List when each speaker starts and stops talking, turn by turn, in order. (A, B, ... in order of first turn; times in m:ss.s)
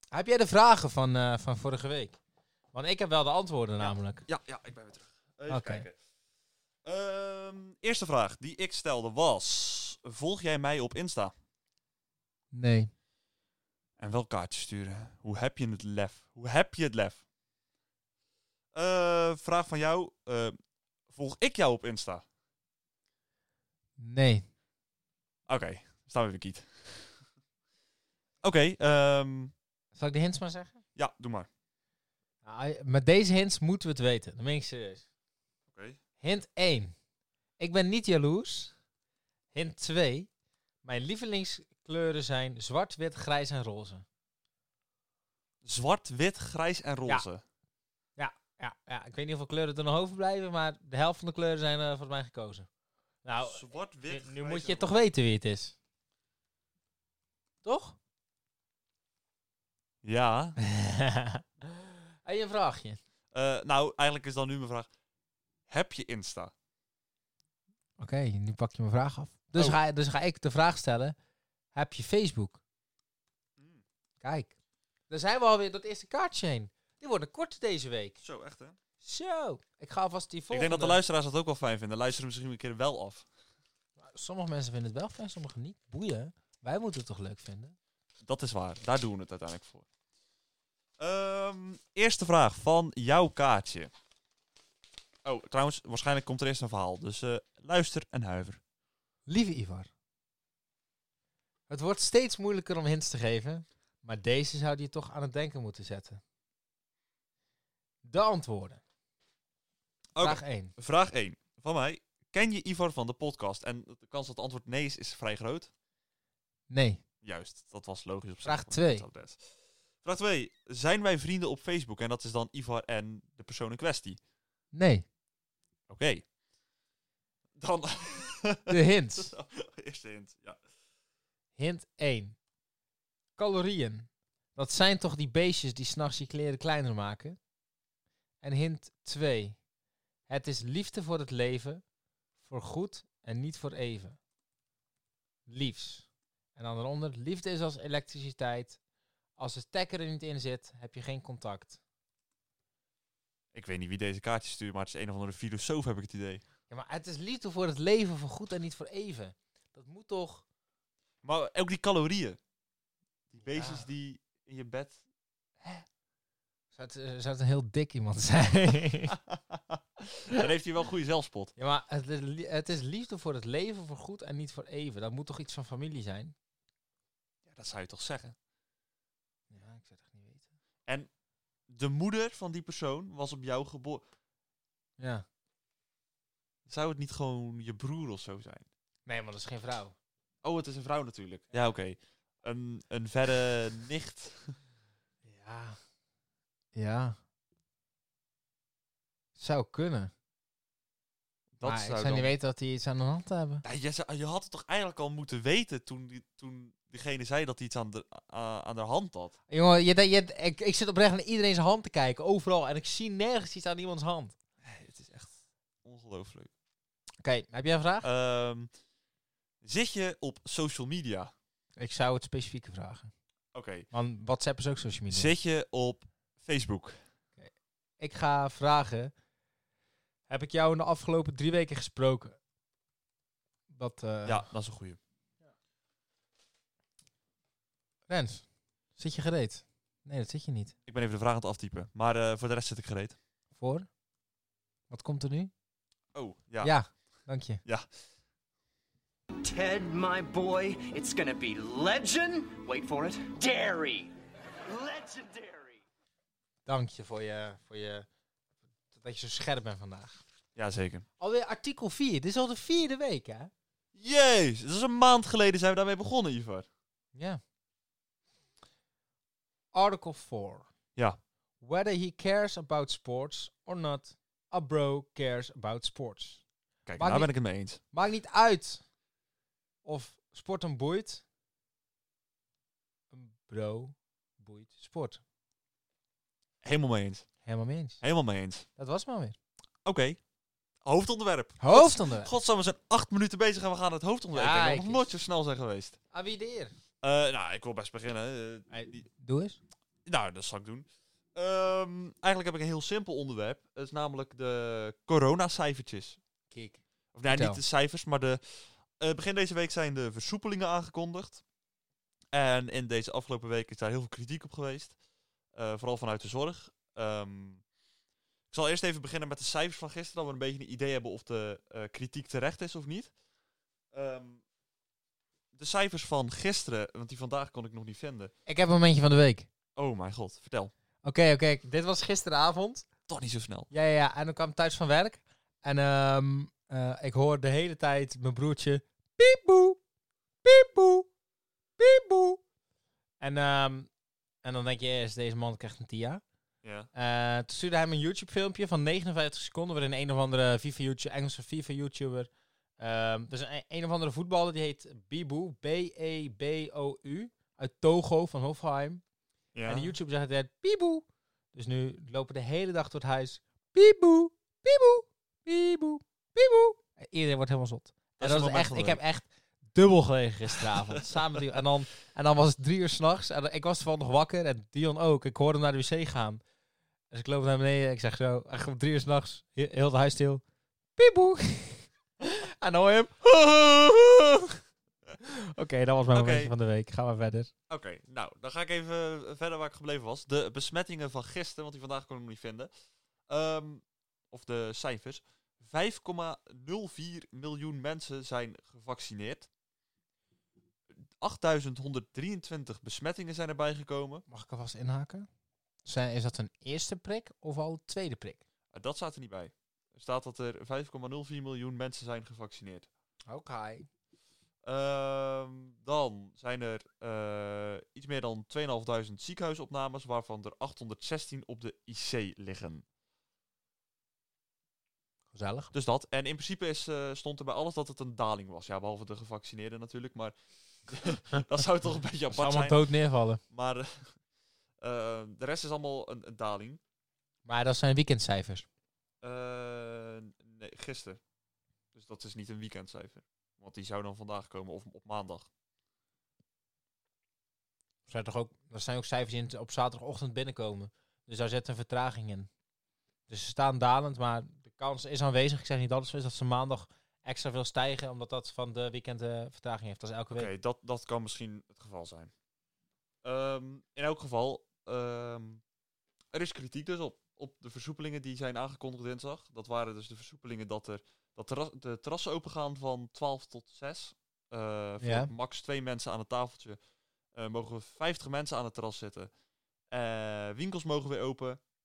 0:00.1-0:02.2 A
0:02.7-0:04.2 A
0:03.8-0:06.0 B
0:05.5-0:05.8 A
0:06.8-0:11.3 B
0:12.5-0:12.9 A
0:14.0-0:17.2 B
0:18.7-0:20.6 B
0:21.1-0:22.2 B
0:24.0-0:24.5 A
0:25.5-0:27.2 B
0:28.4-0:29.5 B
0:30.0-0:30.8 A
0:31.0-0:31.5 B
0:32.4-0:35.0 A
0:35.7-0:36.0 B
0:36.2-0:36.9 A
0:37.6-0:38.7 A
0:39.5-0:40.3 A
0:40.8-0:44.0 A
0:45.6-0:47.4 B
0:48.2-0:52.7 A
0:53.2-0:55.8 A
0:53.4-0:54.9 B
0:57.6-0:58.0 A
1:00.0-1:00.6 B
1:00.6-1:03.0 A
1:03.3-1:04.9 B
1:05.7-1:06.5 B
1:08.0-1:11.1 A
1:11.7-1:12.6 A
1:13.6-1:13.8 B
1:14.2-1:14.5 A
1:15.1-1:18.2 A
1:18.2-1:18.8 B
1:19.0-1:21.0 A
1:20.5-1:23.2 B
1:24.0-1:27.8 A
1:28.2-1:29.8 B
1:31.0-1:33.9 B
1:35.2-1:38.6 B
1:39.3-1:39.9 A
1:41.7-1:46.2 A
1:48.0-1:48.8 A
1:50.1-1:55.7 B
1:50.2-1:50.7 A
1:56.7-1:57.0 A
1:57.2-2:04.2 B
1:58.4-1:59.0 A
2:04.7-2:05.0 A
2:05.9-2:06.2 B
2:07.6-2:10.6 B
2:08.7-2:09.3 A
2:11.6-2:12.4 A
2:13.4-2:17.4 A
2:18.4-2:19.6 A
2:20.3-2:21.8 A
2:22.4-2:24.2 A
2:25.5-2:28.8 A
2:29.4-2:31.8 A
2:33.5-2:36.4 B
2:36.7-2:40.4 A
2:41.2-2:42.4 B
2:43.3-2:45.0 B
2:43.4-2:43.8 A
2:45.6-2:45.8 B
2:46.7-2:49.2 A
2:49.3-2:51.5 B
2:51.6-2:56.3 A
2:57.4-2:58.3 B
2:59.5-3:00.5 A
3:01.7-3:04.0 B
3:05.0-3:05.2 A
3:06.6-3:08.7 B
3:09.0-3:09.9 A
3:10.4-3:14.6 B
3:15.2-3:15.8 A
3:16.7-3:17.2 A
3:19.4-3:20.1 A
3:21.5-3:22.3 B
3:21.6-3:23.6 A
3:23.6-3:29.3 B
3:29.5-3:34.3 A
3:34.6-3:36.5 B
3:37.2-3:38.1 A
3:38.0-3:38.7 B
3:39.6-3:41.3 B
3:41.8-3:43.1 A
3:43.5-3:43.9 B
3:43.9-3:45.3 A
3:45.1-3:47.0 B
3:47.4-3:49.1 A
3:50.3-3:52.4 A
3:53.7-3:54.4 A
3:54.2-3:55.0 B
3:58.1-4:00.7 A
4:00.8-4:03.2 B
4:03.6-4:03.9 A
4:04.9-4:05.5 A
4:06.1-4:06.7 B
4:06.6-4:07.6 A
4:09.4-4:14.1 C
4:14.6-4:15.8 C
4:16.6-4:18.0 A
4:18.9-4:20.2 A
4:20.6-4:21.0 B
4:21.2-4:23.5 A
4:23.9-4:26.7 B
4:27.1-4:27.4 A
4:29.7-4:30.7 A
4:31.6-4:36.4 A
4:36.8-4:37.8 B
4:37.0-4:38.8 A
4:39.8-4:41.2 A
4:43.1-4:45.2 A
4:46.6-4:47.3 B
4:47.4-4:48.0 A
4:48.0-4:48.6 B
4:48.8-4:49.4 A
4:49.8-4:50.2 B
4:50.8-4:56.0 B
4:51.6-4:52.3 A
4:54.3-4:55.1 A
4:56.1-4:56.7 A
4:57.0-4:59.0 B
4:58.7-4:59.6 A
5:00.0-5:06.2 B
5:06.5-5:07.6 A
5:07.1-5:08.4 B
5:09.0-5:11.4 B
5:12.3-5:15.0 B
5:15.5-5:17.6 B
5:18.5-5:23.1 B
5:23.9-5:24.4 B
5:25.5-5:28.3 B
5:28.4-5:29.5 A
5:29.8-5:30.7 B
5:31.0-5:32.9 A
5:33.1-5:33.7 B
5:33.7-5:39.8 A
5:40.4-5:41.1 A
5:41.8-5:42.4 A
5:43.2-5:43.9 A
5:44.4-5:46.2 A
5:46.6-5:46.9 B
5:46.9-5:59.0 A
5:59.5-5:59.9 B
5:59.6-6:16.4 A
6:08.2-6:09.0 B
6:10.6-6:11.4 B
6:17.1-6:20.4 A
6:21.0-6:24.6 A
6:25.2-6:27.5 A
6:26.1-6:26.5 B
6:27.7-6:32.7 B
6:33.3-6:39.5 B
6:41.2-6:44.2 B
6:44.3-6:45.3 A
6:45.8-6:48.4 A
6:48.7-6:52.9 B
6:53.3-6:53.9 A
6:54.6-7:02.8 B
7:05.3-7:05.7 A
7:05.7-7:12.8 B
7:12.3-7:13.4 A
7:13.5-7:14.1 B
7:14.8-7:16.8 B
7:17.4-7:18.6 A
7:19.2-7:21.2 B
7:21.9-7:25.5 B
7:28.1-7:32.5 A
7:33.3-7:40.5 A
7:40.3-7:42.3 B
7:43.2-7:45.6 B
7:46.3-7:56.8 B
7:55.0-7:55.3 A
7:57.3-7:59.3 B
7:59.9-8:01.6 B